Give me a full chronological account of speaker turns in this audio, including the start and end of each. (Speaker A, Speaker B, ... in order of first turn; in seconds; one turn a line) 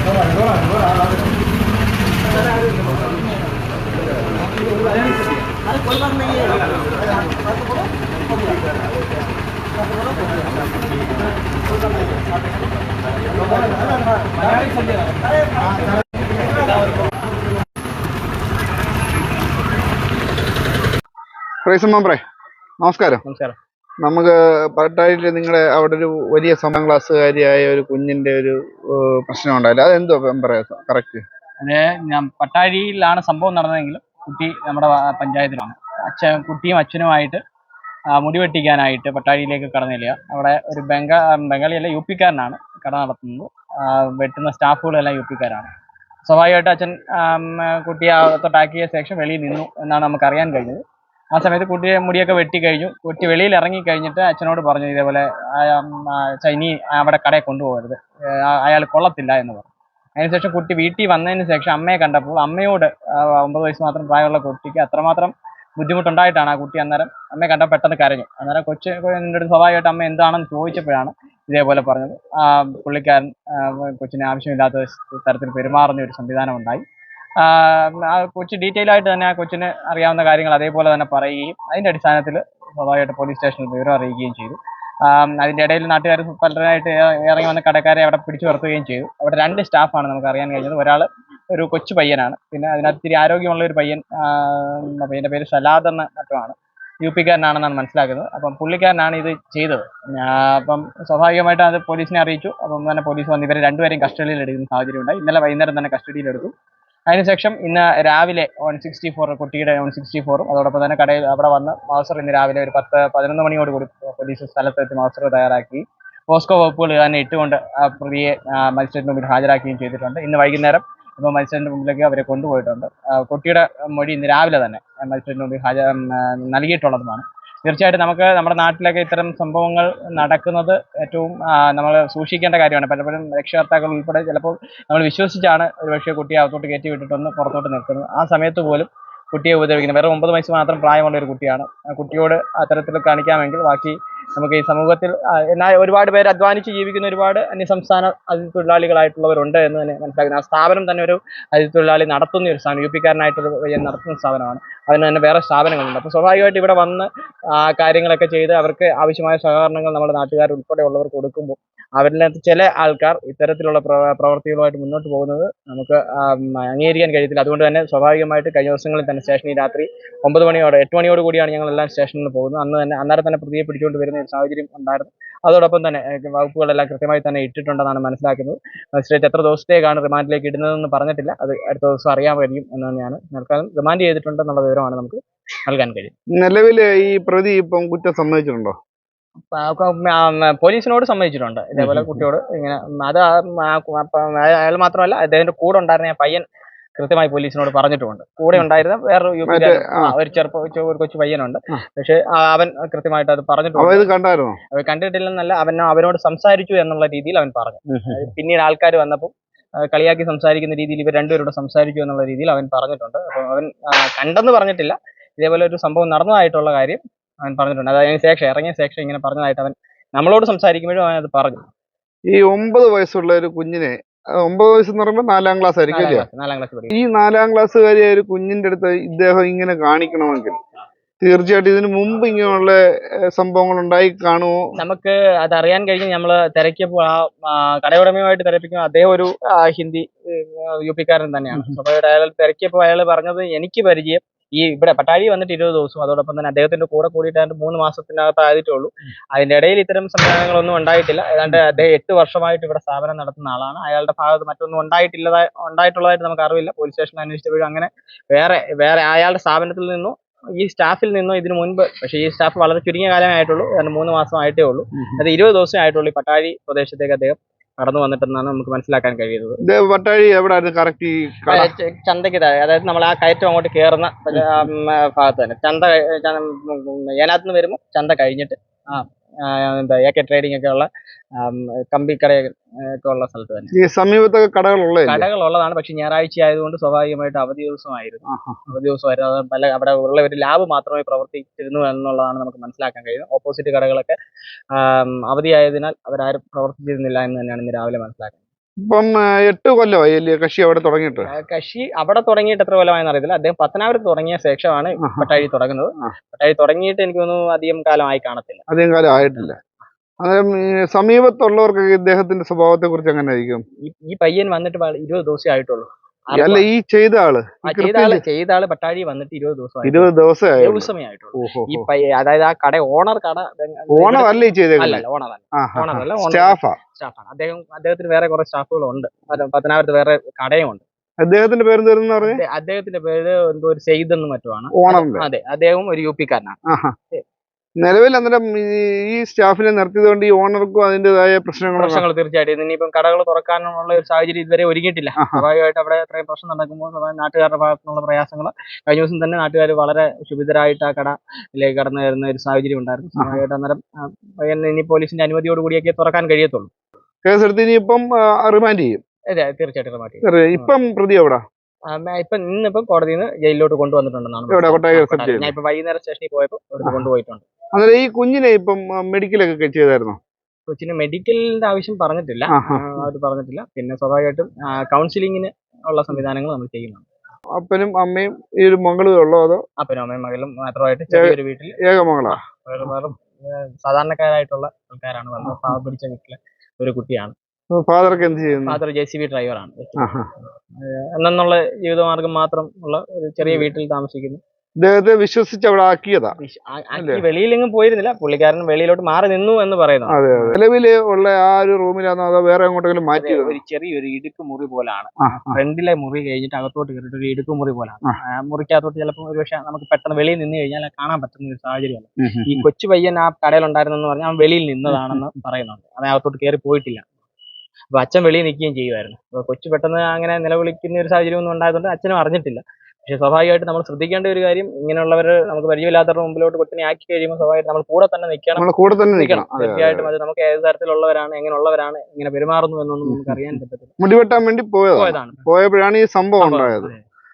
Speaker A: 21.7-22.2
Speaker A: 22.8-23.2
Speaker B: 23.2-23.6
Speaker A: 24.0-31.2
Speaker B: 31.6-37.4
Speaker B: 38.1-45.7
Speaker B: 46.2-50.8
Speaker B: 51.3-76.8
Speaker B: 77.4-106.5
Speaker B: 107.1-186.1
Speaker A: 186.3-188.8
Speaker B: 189.5-196.4
Speaker A: 191.8-192.3
Speaker B: 197.0-204.1
Speaker A: 199.5-200.1
Speaker A: 203.8-204.6
Speaker B: 204.7-221.7
Speaker A: 207.9-208.3
Speaker A: 222.3-226.3
Speaker B: 225.9-226.9
Speaker A: 226.9-230.6
Speaker A: 231.2-234.7
Speaker B: 234.8-269.6
Speaker A: 264.9-265.2
Speaker A: 269.6-271.7
Speaker B: 271.5-283.7
Speaker A: 274.3-274.7
Speaker A: 283.7-285.3
Speaker B: 285.1-294.1
Speaker A: 288.3-288.6
Speaker B: 294.7-298.4
Speaker A: 298.8-301.3
Speaker B: 301.2-308.7
Speaker A: 305.0-305.4
Speaker A: 308.7-309.6
Speaker B: 309.2-309.5
Speaker A: 310.2-313.6
Speaker B: 313.8-316.7
Speaker A: 316.3-318.2
Speaker B: 317.6-330.8
Speaker A: 319.9-321.9
Speaker A: 323.9-325.0
Speaker A: 325.6-326.8
Speaker A: 331.2-332.4
Speaker B: 332.2-336.6
Speaker A: 334.7-335.3
Speaker A: 336.7-336.9
Speaker A: 337.8-342.1
Speaker B: 341.8-356.7
Speaker A: 345.2-345.4
Speaker A: 357.2-359.0
Speaker B: 359.3-360.7
Speaker A: 360.2-361.4
Speaker B: 361.9-367.4
Speaker A: 364.5-365.5
Speaker A: 367.7-370.2
Speaker B: 370.7-377.1
Speaker A: 372.5-373.0
Speaker A: 377.6-379.6
Speaker B: 379.8-387.4
Speaker A: 381.1-382.4
Speaker A: 385.4-385.8
Speaker A: 387.8-388.8
Speaker B: 388.6-390.1
Speaker A: 390.0-390.3
Speaker B: 390.8-394.4
Speaker A: 393.4-393.7
Speaker A: 394.8-396.4
Speaker B: 396.4-400.6
Speaker A: 397.0-397.2
Speaker A: 400.1-403.6
Speaker B: 403.1-417.1
Speaker A: 405.2-405.6
Speaker A: 412.2-412.6
Speaker A: 414.9-415.2
Speaker B: 417.9-433.9
Speaker A: 428.6-430.1
Speaker A: 433.1-436.9
Speaker B: 434.9-435.4
Speaker B: 436.4-437.0